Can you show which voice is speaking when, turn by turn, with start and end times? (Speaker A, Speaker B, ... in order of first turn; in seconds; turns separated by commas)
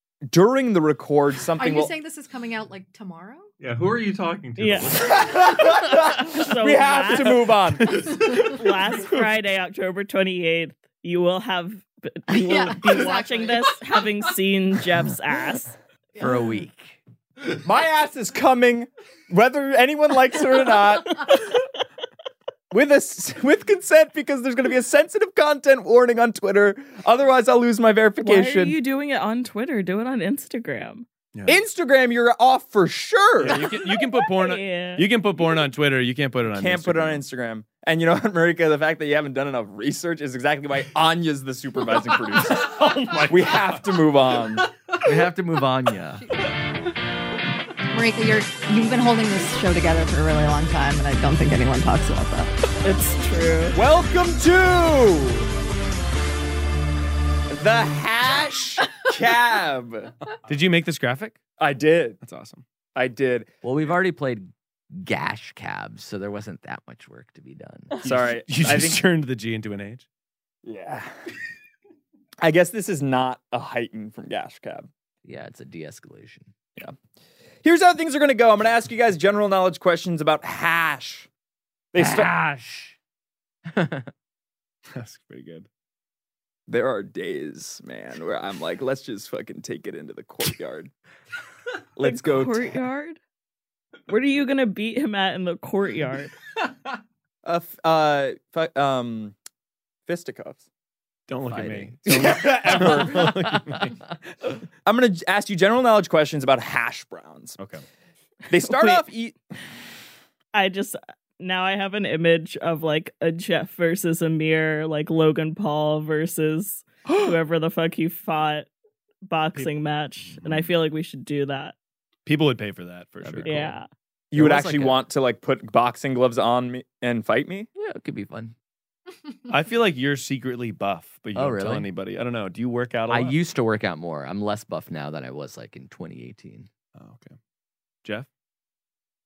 Speaker A: 0.3-1.9, Speaker B: 1.5-3.5, Speaker C: 3.6-5.2, Speaker D: 4.6-5.0, Speaker A: 4.9-8.2, Speaker D: 6.3-7.4, Speaker E: 7.9-8.5, Speaker D: 8.3-15.7, Speaker B: 12.3-13.8, Speaker F: 16.2-17.0, Speaker A: 17.6-21.5, Speaker A: 22.7-28.8, Speaker D: 28.2-31.1, Speaker E: 31.3-31.6, Speaker A: 31.5-33.8, Speaker E: 33.4-37.2, Speaker D: 34.3-35.1, Speaker A: 36.5-44.7, Speaker E: 42.7-43.7, Speaker C: 43.0-43.3, Speaker F: 45.0-46.2, Speaker B: 47.9-52.5, Speaker D: 52.8-53.8, Speaker A: 53.7-55.5, Speaker A: 57.5-60.1, Speaker E: 60.5-61.4, Speaker A: 61.6-62.2, Speaker E: 62.2-62.6, Speaker A: 62.9-63.5, Speaker F: 63.6-67.9, Speaker A: 68.0-69.0, Speaker E: 68.0-70.0, Speaker A: 70.6-71.1, Speaker A: 72.4-74.9, Speaker F: 75.2-76.5, Speaker A: 77.6-81.3, Speaker A: 81.9-82.3, Speaker F: 82.0-83.0, Speaker F: 83.7-84.1, Speaker E: 84.9-85.7, Speaker A: 86.7-90.9, Speaker A: 92.0-92.8, Speaker D: 92.0-93.2, Speaker D: 94.1-96.3, Speaker A: 97.4-99.3, Speaker A: 100.1-100.7, Speaker E: 101.3-104.0, Speaker F: 101.5-103.9, Speaker A: 102.0-103.3, Speaker A: 104.8-107.6, Speaker E: 107.6-107.8, Speaker A: 108.5-109.4, Speaker D: 108.6-109.0, Speaker D: 110.5-118.7, Speaker A: 117.1-117.3, Speaker D: 119.2-121.8, Speaker E: 122.2-123.5, Speaker F: 123.2-123.8, Speaker D: 123.4-123.9, Speaker A: 124.3-127.7, Speaker F: 124.3-125.0, Speaker F: 127.8-128.5, Speaker E: 129.5-133.4, Speaker F: 131.3-131.9, Speaker F: 133.1-136.7, Speaker E: 136.9-137.3